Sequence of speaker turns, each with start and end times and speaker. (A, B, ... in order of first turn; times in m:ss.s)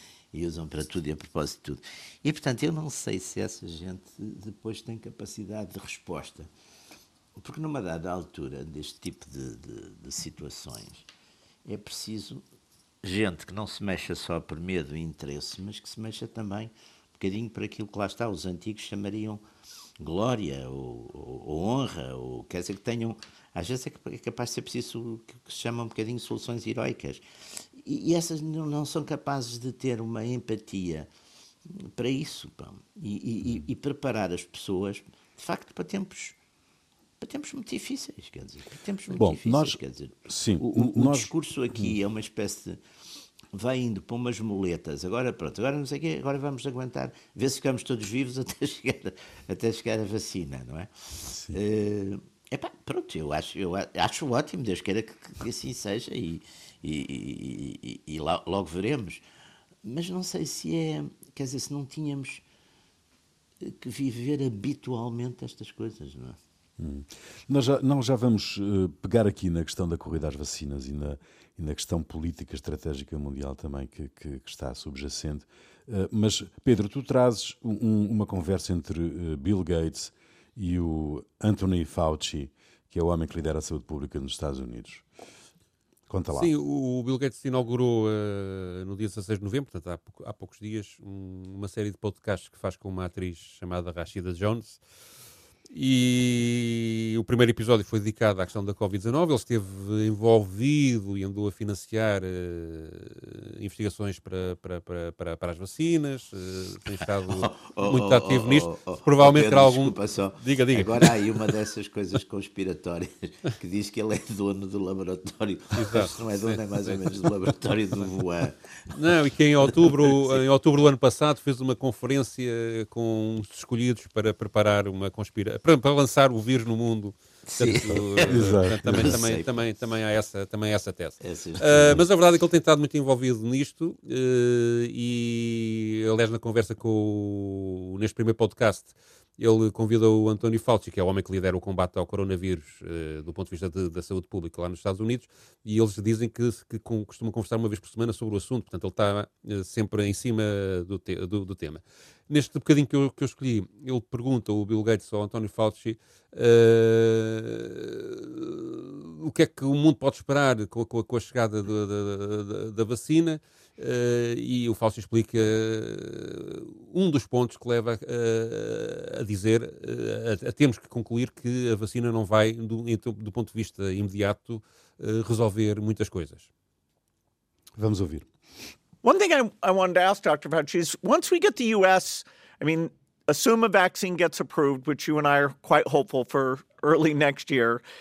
0:00.3-0:06.5 A
0:07.4-0:11.1 A
0:11.6-0:12.4 A
0:13.0-0:19.4 A
0:20.0-0:27.2 A
0:27.8-0:31.1 A
0:31.7-0:36.4 A
0:37.2-0:42.8 A
0:39.2-0:42.0 B
0:43.5-0:50.9 A
0:51.3-0:51.6 B
0:51.5-0:59.2 A
0:59.8-1:02.4 A
1:03.6-1:06.4 A
1:06.8-1:25.0 B
1:26.1-1:26.5 B
1:26.4-1:34.8 C
1:35.7-1:51.5 C
1:47.0-1:58.9 A
1:55.8-1:57.1 C
1:58.9-2:56.5 C
1:59.7-2:00.4 A
2:07.5-2:09.6 A
2:08.3-2:09.2 B
2:11.2-2:12.0 A
2:57.8-2:58.3 B
2:59.0-3:07.8 D